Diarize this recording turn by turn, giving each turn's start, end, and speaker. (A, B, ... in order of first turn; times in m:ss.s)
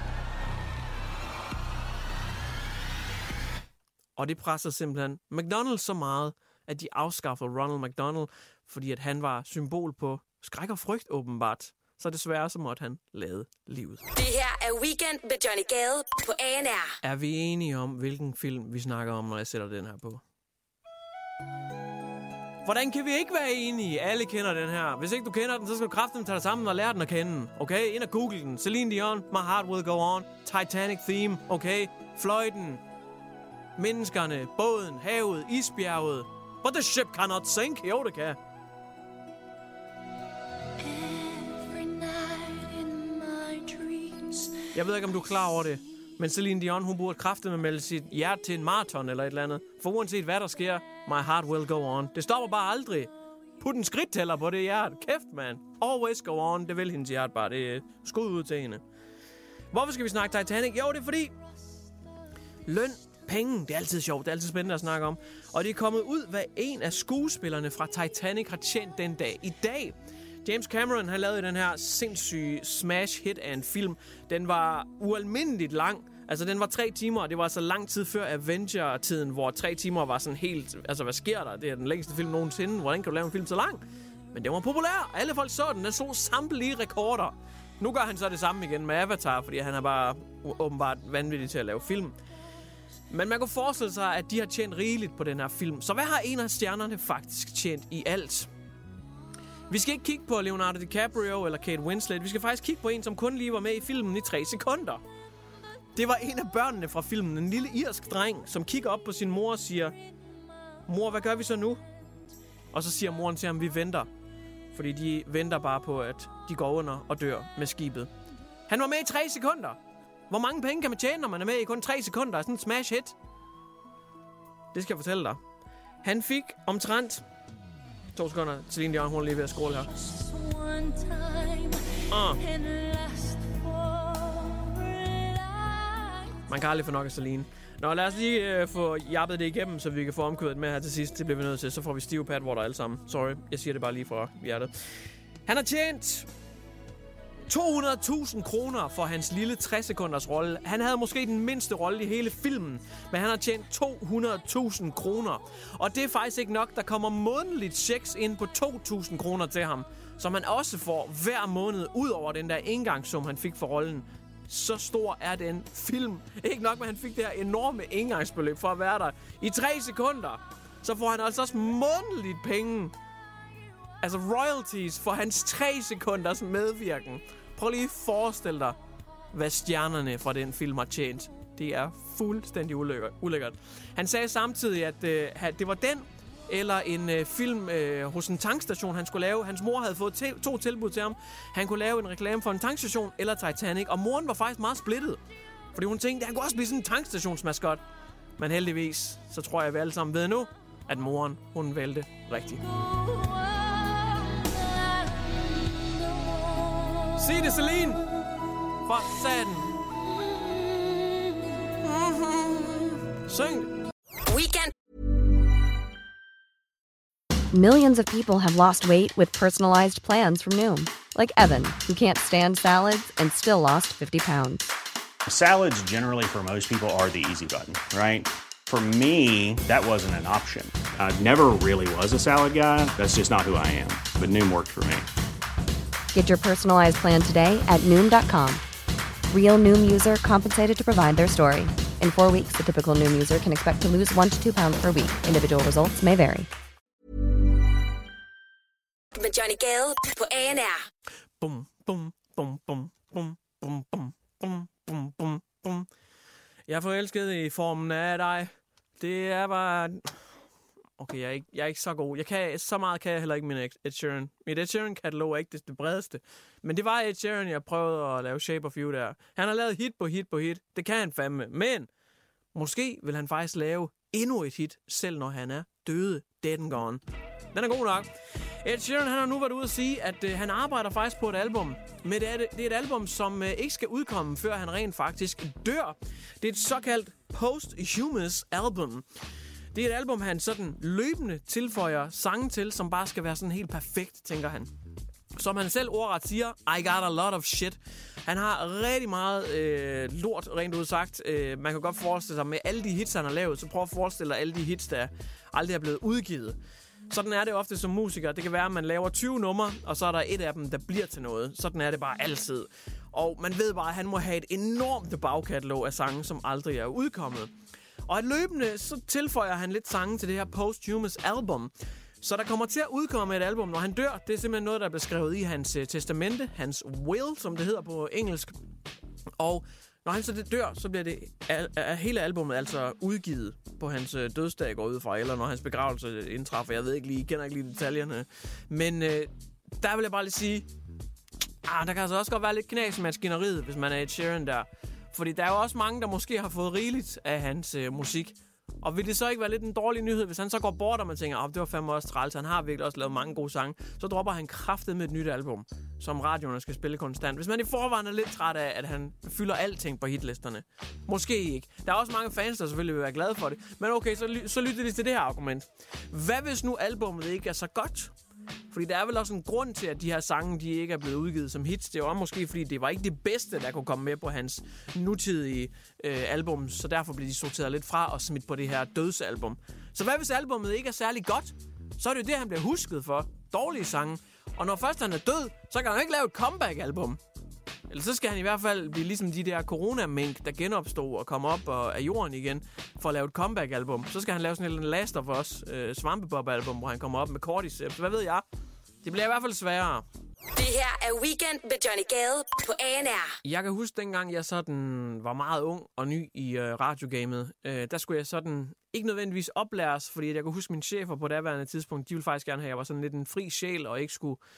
0:04.2-0:14.0 A
0:14.2-0:16.9 B
0:17.0-0:20.2 A
0:22.6-0:32.8 A
0:33.8-0:38.4 A
0:40.8-0:44.6 B
0:44.7-0:58.8 A
0:59.7-1:01.3 A
1:02.7-1:32.1 A
1:33.1-1:38.5 A
1:39.7-1:45.0 A
1:46.0-1:50.0 A
1:50.9-1:51.8 A
1:52.7-1:54.1 A
1:54.7-1:58.1 A
1:58.7-1:59.8 A
2:00.3-2:03.2 A
2:04.7-2:05.4 A
2:06.0-2:07.2 A
2:08.2-2:09.9 A
2:09.9-2:16.4 B
2:12.1-2:12.4 A
2:16.5-2:24.7 A
2:25.5-2:26.3 A
2:27.5-2:52.9 A
2:54.0-2:58.8 A
2:59.3-3:15.2 A
3:15.8-3:17.8 A
3:18.4-3:22.6 A
3:22.9-3:25.5 B
3:26.2-3:27.1 B
3:27.2-3:28.1 A
3:28.8-3:29.7 A
3:30.1-3:31.7 B
3:31.8-3:33.7 A
3:34.3-3:34.7 B
3:37.5-3:44.7 C
3:45.3-3:55.1 D
3:56.1-3:58.6 C
3:59.3-4:06.5 C
4:09.2-4:10.8 B
4:11.4-4:15.9 A
4:16.7-4:20.2 A
4:21.0-4:31.9 A
4:32.5-4:37.0 A
4:37.5-4:38.1 A
4:38.6-4:49.0 A
4:49.7-4:54.7 A
4:55.4-5:06.6 A
5:07.1-5:17.5 A
5:18.1-5:28.5 A
5:29.4-5:40.7 A
5:41.6-6:08.1 A
6:08.7-6:27.2 A
6:27.9-6:38.4 A
6:39.0-6:40.0 A
6:40.5-6:43.4 B
6:43.4-6:54.4 A